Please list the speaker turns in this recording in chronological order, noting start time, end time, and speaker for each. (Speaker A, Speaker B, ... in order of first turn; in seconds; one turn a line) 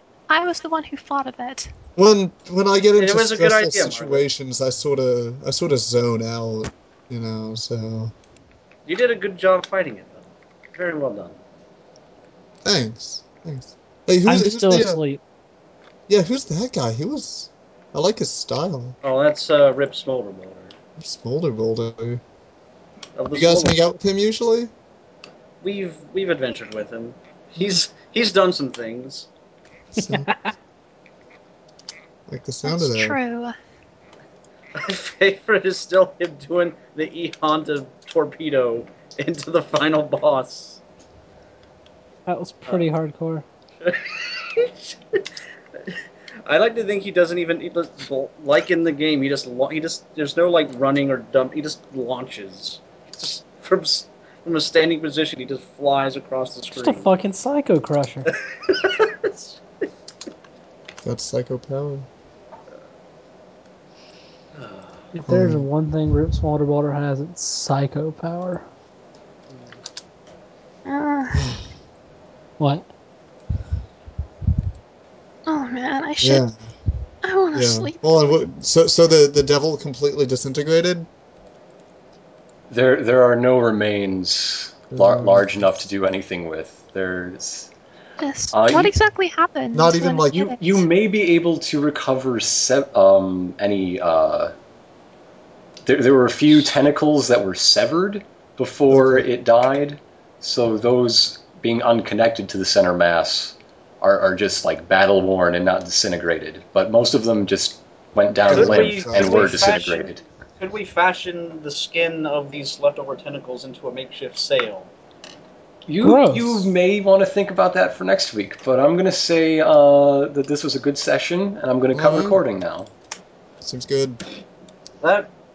Speaker A: 0.3-1.7
Speaker B: 1.9-8.1
Speaker C: 3.0-4.2
Speaker C: 8.8-11.3
Speaker B: 12.6-15.0
Speaker D: 14.2-15.2
Speaker B: 16.1-18.9
Speaker C: 19.0-20.7
Speaker B: 21.0-22.2
Speaker C: 23.1-23.8
Speaker B: 23.3-24.7
Speaker C: 25.6-29.3
Speaker B: 29.9-30.3
Speaker D: 30.0-30.5
Speaker B: 32.3-33.2
Speaker A: 32.6-33.5
Speaker C: 34.7-40.8
Speaker D: 42.2-43.4
Speaker C: 43.8-45.3
Speaker C: 45.8-57.1
Speaker D: 56.7-58.3
Speaker C: 58.3-59.6
Speaker B: 61.0-62.1
Speaker C: 64.5-65.0
Speaker D: 65.1-68.6
Speaker B: 65.2-65.7
Speaker A: 70.8-71.5
Speaker B: 71.3-71.7
Speaker D: 72.6-72.9
Speaker A: 75.5-76.4
Speaker B: 76.2-76.7
Speaker A: 77.2-78.0
Speaker B: 77.5-81.1
Speaker E: 82.7-87.7
Speaker B: 84.9-85.8
Speaker A: 88.2-90.8
Speaker E: 88.5-88.9
Speaker B: 89.7-90.7
Speaker E: 90.3-94.5
Speaker E: 95.8-110.2
Speaker B: 98.9-99.3
Speaker C: 108.4-114.9
Speaker B: 108.4-109.7
Speaker E: 115.8-122.9
Speaker D: 116.0-116.7
Speaker B: 121.9-122.4
Speaker B: 123.6-124.2
Speaker C: 125.0-125.3